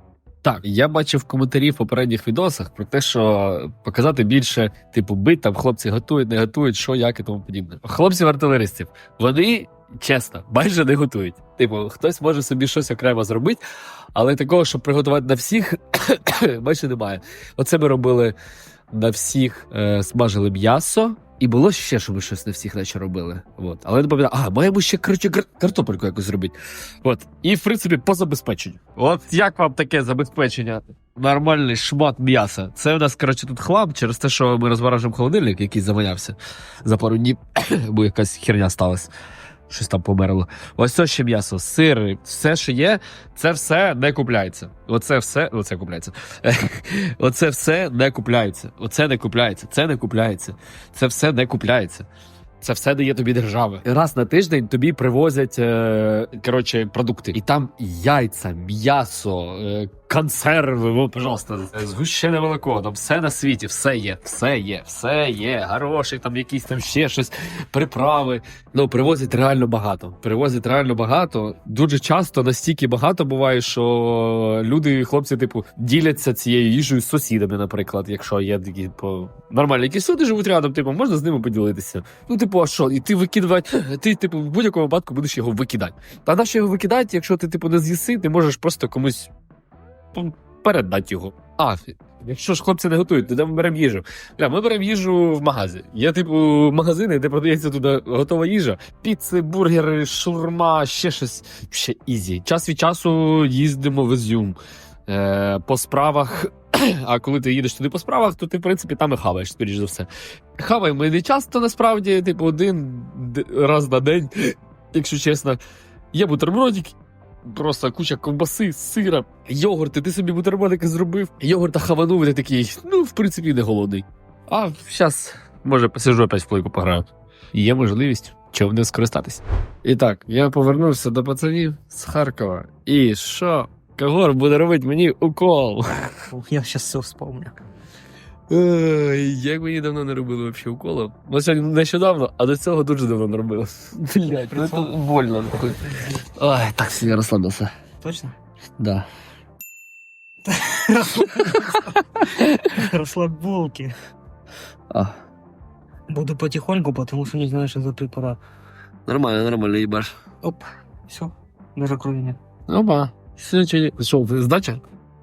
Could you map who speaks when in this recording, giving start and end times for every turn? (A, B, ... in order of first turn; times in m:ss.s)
0:00.4-0:13.6 A
0:14.2-0:18.4 A
0:18.9-0:39.1 A
0:39.7-0:52.1 A
0:52.6-1:29.3 A
1:30.1-1:55.6 A
1:56.1-2:16.1 A
2:16.3-2:17.6 B
2:18.5-2:27.7 A
2:24.5-2:24.9 B
2:28.0-2:28.3 B
2:28.8-2:29.0 A
2:30.5-2:31.8 B
2:32.7-2:33.9 B
2:34.9-2:35.2 A
2:36.1-2:38.4 B
2:39.1-2:40.1 A
2:40.4-2:42.4 B
2:42.7-2:44.8 A